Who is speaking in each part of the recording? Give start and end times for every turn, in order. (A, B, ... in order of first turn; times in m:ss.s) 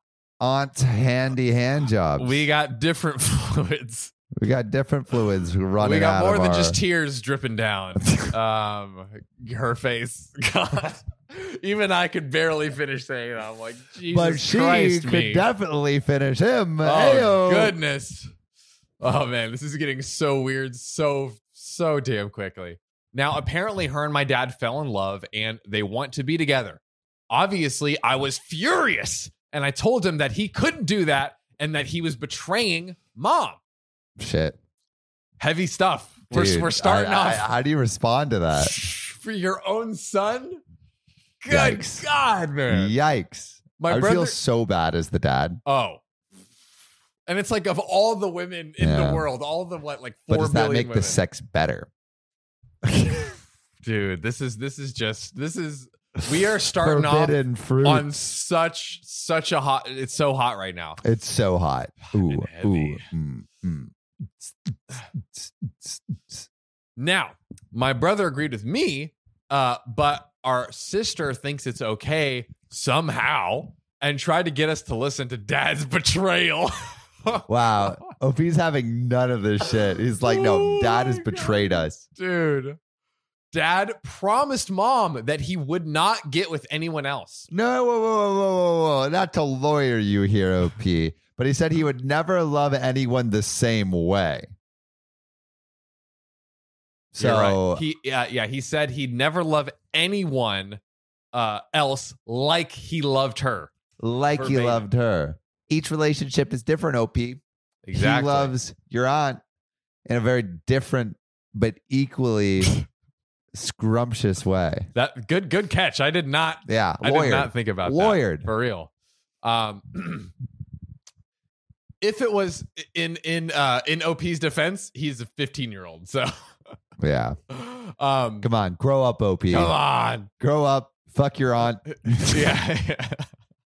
0:00.4-0:02.5 A
0:02.2-0:04.1 B
0:04.4-0:06.8 A
0:05.8-0:15.5 B
0:08.0-0:08.3 A
0:14.1-0:17.8 A
0:16.8-0:18.3 B
0:19.0-0:33.6 B
0:34.2-0:34.6 A
0:35.4-0:37.5 B
0:36.3-0:38.7 A
0:38.5-0:40.6 B
0:41.4-0:43.0 B
0:41.5-0:42.1 A
0:42.7-0:45.6 A
0:43.8-0:44.4 B
0:45.6-0:46.0 B
0:47.3-0:51.2 B
0:48.8-0:49.3 A
0:50.3-0:51.9 A
0:52.8-0:53.4 A
0:53.8-1:01.0 B
0:56.8-0:58.1 A
1:01.0-1:06.4 A
1:02.1-1:03.1 B
1:07.0-1:18.1 B
1:17.5-1:22.0 A
1:19.6-1:22.8 B
1:23.5-1:27.5 B
1:27.5-1:34.5 A
1:37.2-1:37.8 A
1:37.2-1:40.8 B
1:41.3-1:43.7 B
1:44.0-1:47.4 A
1:44.4-1:44.9 B
1:47.8-1:48.6 B
1:47.9-1:49.4 A
1:50.1-1:52.8 A
1:53.5-1:54.9 A
1:54.9-1:58.9 B
1:56.7-1:58.5 A
1:59.4-2:00.3 B
2:02.0-2:06.3 B
2:07.0-2:07.4 A
2:07.5-2:08.5 B
2:08.4-2:09.8 A
2:09.5-2:10.3 B
2:10.4-2:12.6 A
2:12.0-2:13.3 B